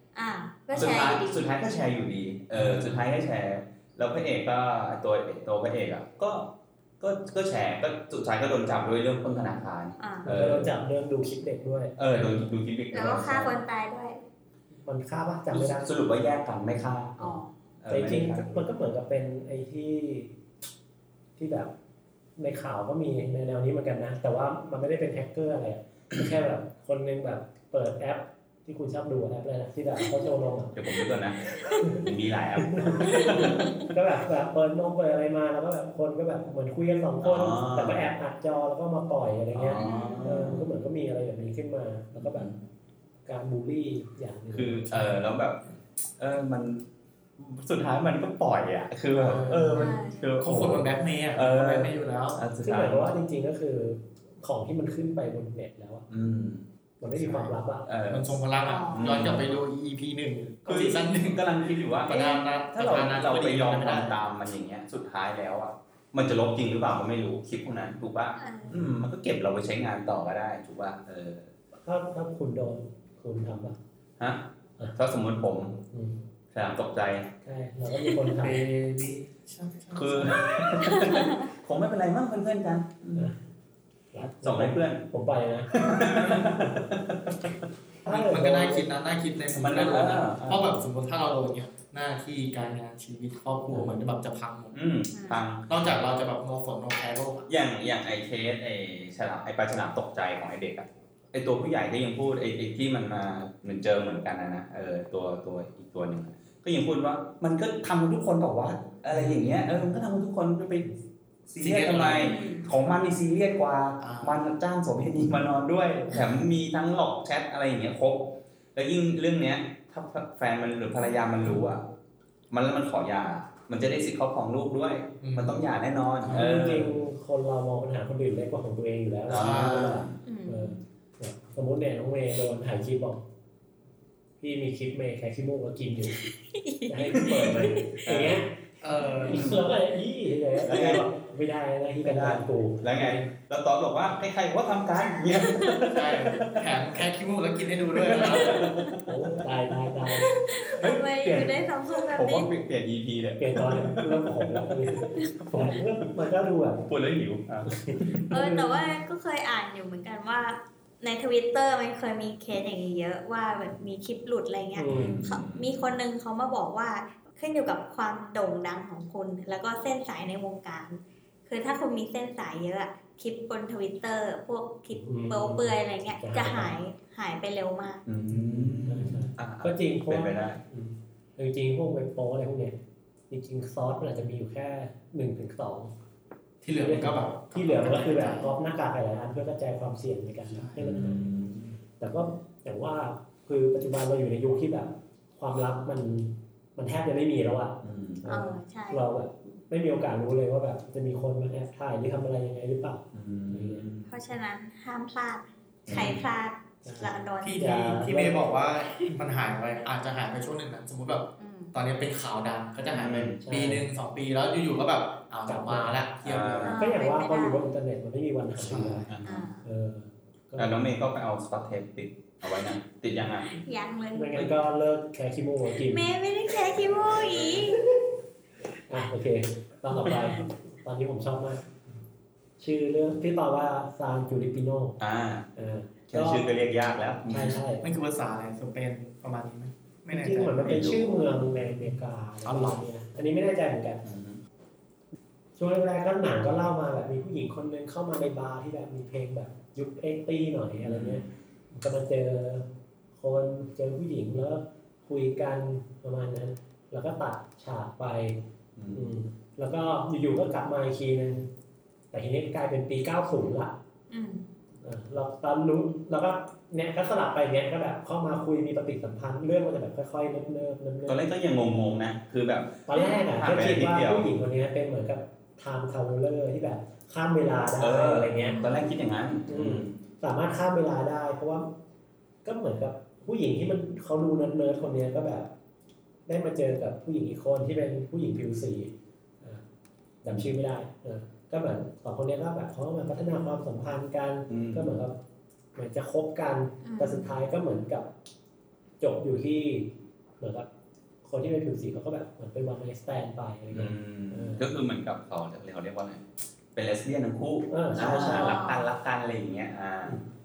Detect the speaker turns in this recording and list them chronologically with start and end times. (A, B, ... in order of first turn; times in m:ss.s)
0:00.1-0:01.6 A
0:00.7-0:10.7 B
0:02.5-0:03.1 C
0:10.0-0:10.5 A
0:10.2-0:12.0 D
0:12.0-0:13.6 B
0:12.9-0:14.2 A
0:14.8-0:15.9 D
0:15.5-0:18.6 B
0:17.2-0:17.5 A
0:17.9-0:20.3 D
0:21.4-0:21.7 D
0:22.4-0:30.8 D
0:30.7-0:33.7 B
0:31.6-0:32.0 D
0:32.6-0:42.5 D
0:33.3-0:33.6 A
0:37.2-0:38.1 B
0:39.5-0:40.7 B
0:39.7-0:40.5 A
0:42.1-0:42.6 B
0:43.2-0:44.9 D
0:44.5-0:45.6 B
0:44.9-0:45.2 C
0:46.2-0:46.8 B
0:47.4-0:53.1 B
0:49.1-0:52.4 C
0:49.8-0:50.3 A
0:52.6-0:56.1 D
0:56.1-0:56.6 B
0:57.0-0:57.9 D
0:57.2-0:59.5 B
0:58.1-1:01.4 C
0:58.6-0:59.4 A
1:00.6-1:11.5 B
1:02.0-1:04.2 C
1:08.4-1:08.8 A
1:11.8-1:13.8 D
1:14.2-1:15.8 B
1:15.9-1:16.2 D
1:16.5-1:17.3 B
1:17.4-1:18.6 D
1:18.4-1:21.2 C
1:19.9-1:23.3 B
1:21.0-1:21.2 A
1:24.1-1:25.8 D
1:24.4-1:25.0 B
1:25.7-1:27.6 B
1:26.4-1:26.7 D
1:28.0-1:28.9 D
1:28.0-1:34.7 C
1:29.5-1:30.8 B
1:34.7-1:35.9 B
1:35.1-1:35.4 A
1:35.7-1:37.5 C
1:37.5-1:50.9 B
1:49.1-1:49.8 C
1:51.5-2:01.8 B
1:51.6-1:52.5 C
1:52.2-1:52.7 A
1:54.0-1:54.4 C
2:02.5-2:06.9 B
2:05.2-2:05.6 C
2:06.2-2:06.6 C
2:06.3-2:13.2 D
2:09.3-2:10.2 B
2:09.3-2:10.0 C
2:10.2-2:10.7 A
2:14.4-2:16.2 D
2:16.2-2:18.0 A
2:16.9-2:23.2 D
2:17.2-2:17.5 B
2:18.0-2:18.4 B
2:18.8-2:19.5 C
2:19.0-2:19.4 A
2:19.3-2:19.6 B
2:20.6-2:21.0 B
2:22.0-2:27.0 B
2:25.0-2:25.9 A
2:25.9-2:28.8 C
2:27.8-2:29.6 B
2:28.4-2:28.9 A
2:29.0-2:31.6 D
2:30.3-2:30.9 C
2:30.5-2:32.5 A
2:32.1-2:35.9 B
2:33.4-2:36.8 D
2:36.9-2:38.2 B
2:37.6-2:38.8 D
2:38.3-2:58.0 A
2:44.8-2:45.2 D
2:44.9-2:45.9 B
2:54.9-2:56.8 D
2:58.0-3:00.6 B
2:58.3-3:02.8 D
3:03.3-3:05.9 D
3:06.6-3:08.5 C
3:06.8-3:11.2 D
3:10.5-3:11.0 C
3:10.8-3:11.8 B
3:12.0-3:23.9 D
3:17.8-3:18.2 B
3:18.3-3:19.0 A
3:23.1-3:24.1 B
3:24.1-3:27.6 A
3:25.9-3:26.2 B
3:26.8-3:28.4 D
3:27.4-3:36.7 C
3:31.4-3:31.7 A
3:32.8-3:33.4 B
3:33.4-3:33.8 D
3:35.5-3:39.1 D
3:36.2-3:36.8 B
3:36.6-3:37.6 A
3:38.6-3:39.0 C
3:39.1-3:39.5 B
3:39.2-3:39.6 A
3:39.6-3:40.8 D
3:40.6-3:43.6 B
3:43.5-3:44.5 A
3:44.1-3:46.1 D
3:45.7-3:47.9 A
3:48.9-3:51.6 D
3:52.6-3:55.0 D
3:55.0-3:55.5 B
3:55.6-3:56.4 D
3:56.1-3:57.6 B
3:57.3-3:57.8 D
3:57.8-4:00.7 C
4:00.1-4:04.1 D
4:00.6-4:01.4 B
4:02.4-4:02.8 C
4:04.0-4:04.4 B
4:05.6-4:21.5 D
4:10.8-4:11.2 B
4:18.8-4:19.1 B
4:22.1-4:23.8 D
4:24.1-4:24.5 A
4:24.8-4:31.2 D
4:31.1-4:34.3 B
4:32.9-4:38.6 D
4:37.8-4:39.9 B
4:38.5-4:38.8 A
4:39.5-4:41.7 D
4:42.4-4:45.5 D
4:46.3-4:49.6 D
4:50.2-4:55.1 D
4:54.5-4:55.0 B
4:55.7-4:58.1 D
4:56.8-4:57.4 A
4:59.0-5:00.7 D
5:01.2-5:04.7 D
5:03.7-5:10.2 B
5:07.7-5:08.5 D
5:07.9-5:08.8 A